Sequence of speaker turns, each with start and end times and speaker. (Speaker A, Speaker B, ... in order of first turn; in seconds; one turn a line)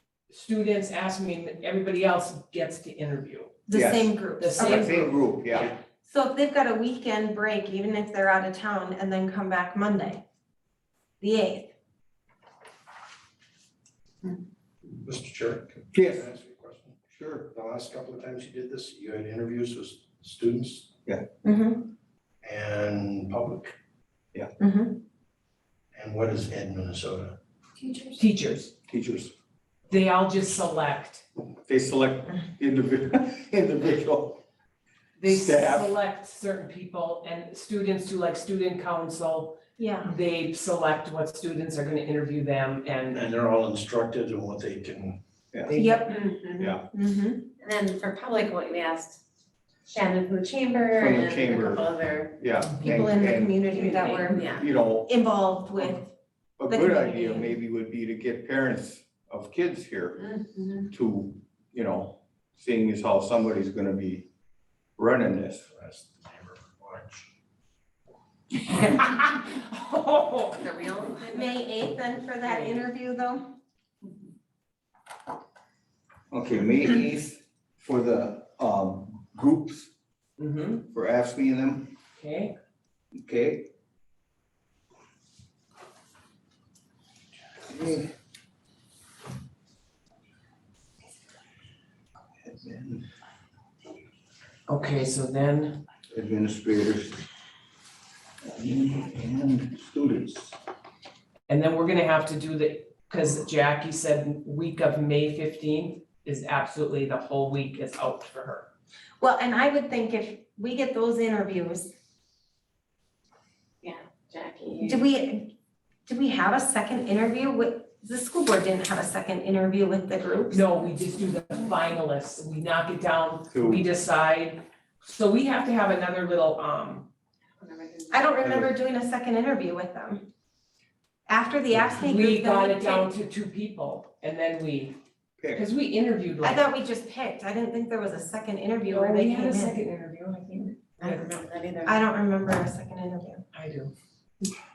Speaker A: 0.3-3.6
Speaker B: 3.7-5.1
Speaker C: 3.7-5.8
Speaker A: 4.4-5.6
Speaker B: 6.0-10.2
Speaker B: 11.2-11.7
Speaker D: 15.0-20.9
Speaker C: 15.9-16.3
Speaker C: 17.1-17.5
Speaker B: 21.4-21.9
Speaker D: 22.4-23.8
Speaker B: 24.6-25.0
Speaker D: 25.9-27.4
Speaker A: 28.2-28.7
Speaker C: 28.9-29.3
Speaker A: 29.9-31.2
Speaker C: 31.7-34.4
Speaker A: 35.2-43.3
Speaker C: 35.2-36.0
Speaker B: 39.8-40.2
Speaker D: 43.1-45.2
Speaker A: 45.7-46.1
Speaker B: 45.7-46.2
Speaker E: 46.1-46.8
Speaker C: 46.6-46.9
Speaker B: 46.9-47.5
Speaker E: 47.6-49.2
Speaker E: 49.9-52.4
Speaker C: 51.0-53.6
Speaker B: 52.8-56.1
Speaker E: 53.7-54.6
Speaker C: 54.4-55.1
Speaker C: 56.6-60.3
Speaker B: 56.7-57.6
Speaker E: 60.2-60.9
Speaker C: 60.9-64.3
Speaker C: 65.0-65.7
Speaker D: 65.7-67.3
Speaker A: 68.6-70.7
Speaker E: 70.6-71.5
Speaker B: 71.3-73.5
Speaker A: 72.3-72.8
Speaker C: 76.3-79.9
Speaker A: 80.4-80.8
Speaker C: 80.9-81.9
Speaker A: 82.2-82.5
Speaker C: 83.2-83.7
Speaker C: 87.7-88.1
Speaker C: 92.4-93.1
Speaker A: 94.7-95.8
Speaker C: 96.1-97.2
Speaker C: 98.4-100.5
Speaker A: 101.5-108.7
Speaker B: 109.2-111.9
Speaker E: 113.8-115.0
Speaker B: 114.8-115.5
Speaker B: 116.1-120.7
Speaker A: 120.5-127.1
Speaker C: 123.5-123.9
Speaker E: 127.6-128.3
Speaker B: 128.1-130.2
Speaker C: 128.4-128.7
Speaker B: 131.3-133.1
Speaker A: 131.9-135.0
Speaker C: 135.4-135.7
Speaker A: 135.5-136.7
Speaker B: 136.4-139.8
Speaker A: 138.9-141.3
Speaker E: 141.0-142.0
Speaker B: 141.9-143.4
Speaker A: 143.5-143.9